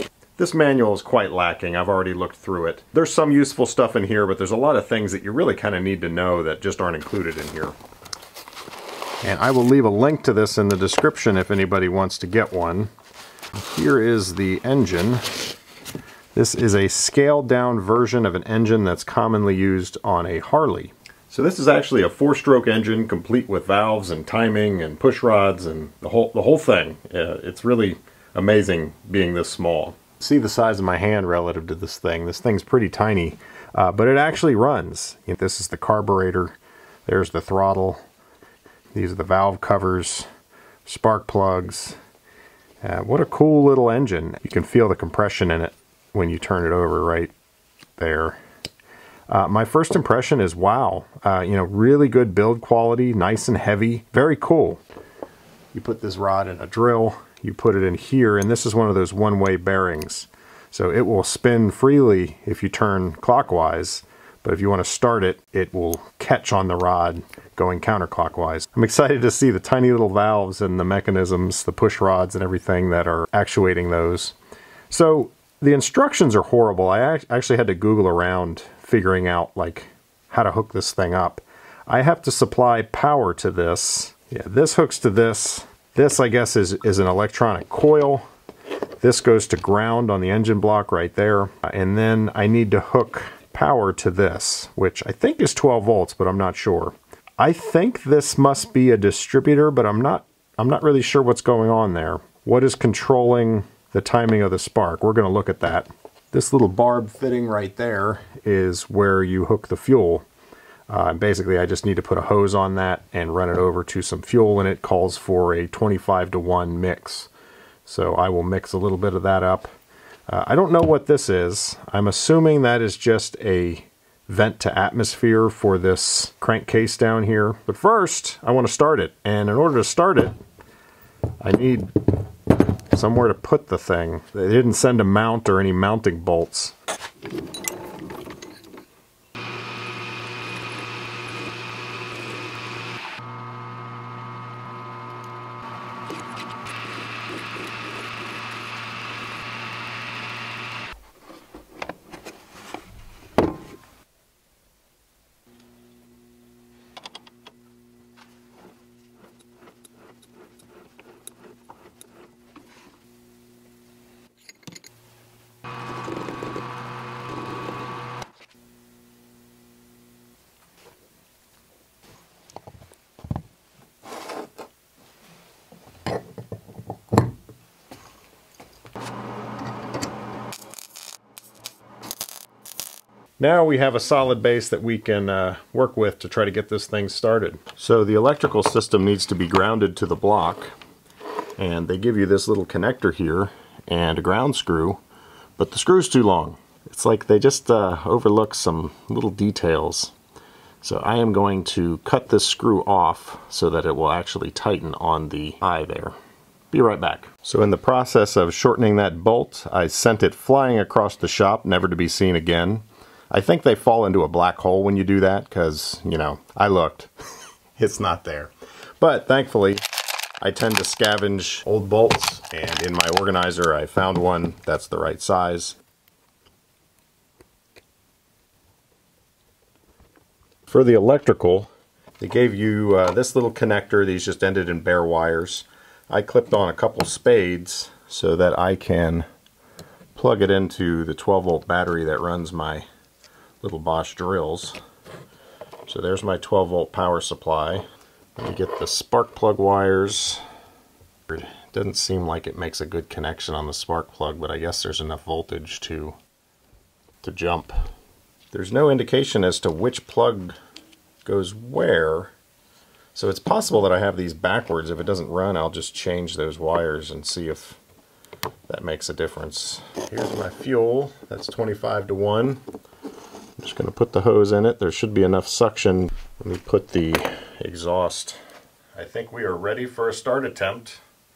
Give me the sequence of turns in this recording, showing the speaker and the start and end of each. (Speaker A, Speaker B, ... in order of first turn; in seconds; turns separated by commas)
Speaker A: 0.4-7.8, Speaker A: 9.2-12.9, Speaker A: 13.5-15.2, Speaker A: 16.3-36.5, Speaker A: 37.0-38.0, Speaker A: 38.9-40.3, Speaker A: 40.9-42.0, Speaker A: 42.8-47.3, Speaker A: 48.0-48.4, Speaker A: 49.3-54.8, Speaker A: 55.7-74.3, Speaker A: 74.9-88.2, Speaker A: 89.0-110.2, Speaker A: 110.9-117.3, Speaker A: 117.8-119.7, Speaker A: 120.3-130.3, Speaker A: 131.4-131.9, Speaker A: 132.9-136.8, Speaker A: 183.4-190.7, Speaker A: 191.6-195.0, Speaker A: 195.6-200.1, Speaker A: 200.8-206.1, Speaker A: 206.7-217.1, Speaker A: 217.8-219.8, Speaker A: 220.4-225.8, Speaker A: 230.7-239.3, Speaker A: 240.1-242.9, Speaker A: 243.6-244.8, Speaker A: 245.8-247.8, Speaker A: 248.4-250.4, Speaker A: 251.3-256.2, Speaker A: 257.2-257.7, Speaker A: 258.5-260.5, Speaker A: 261.2-262.3, Speaker A: 263.1-267.8, Speaker A: 268.7-272.6, Speaker A: 273.6-278.4, Speaker A: 278.9-281.0